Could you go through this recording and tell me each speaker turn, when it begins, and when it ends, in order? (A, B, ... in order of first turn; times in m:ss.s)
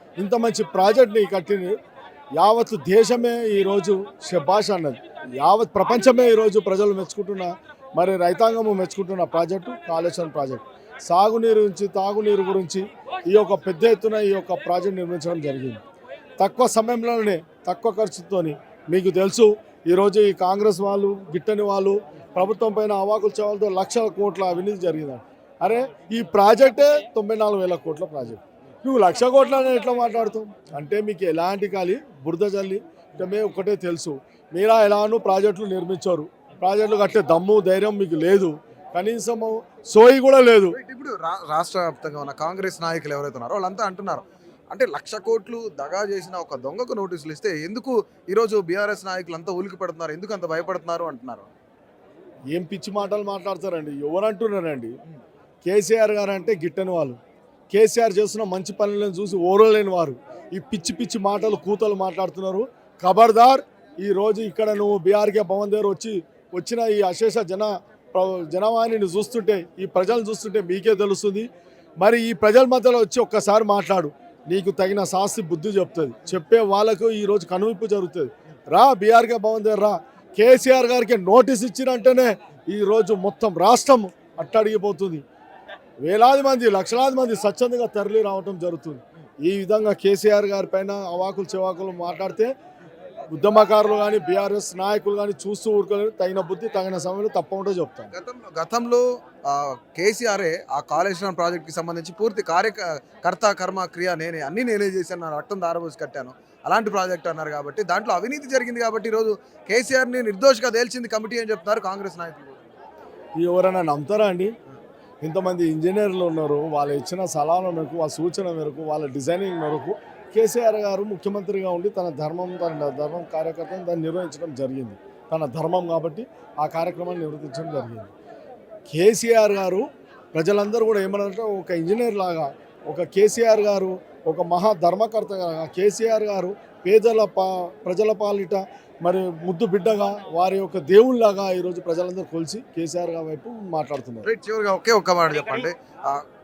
0:00.2-0:01.8 A
0:02.4-0:15.8 A
0:16.4-0:40.8 A
0:40.7-0:51.5 B
0:52.5-0:54.9 A
0:55.6-0:57.2 A
0:57.7-1:11.5 A
1:12.0-1:25.2 A
1:26.0-1:32.5 A
1:33.3-1:38.1 A
1:38.1-1:52.7 B
1:53.4-1:54.5 A
1:55.2-2:08.1 A
2:08.9-2:24.2 A
2:24.2-2:26.2 B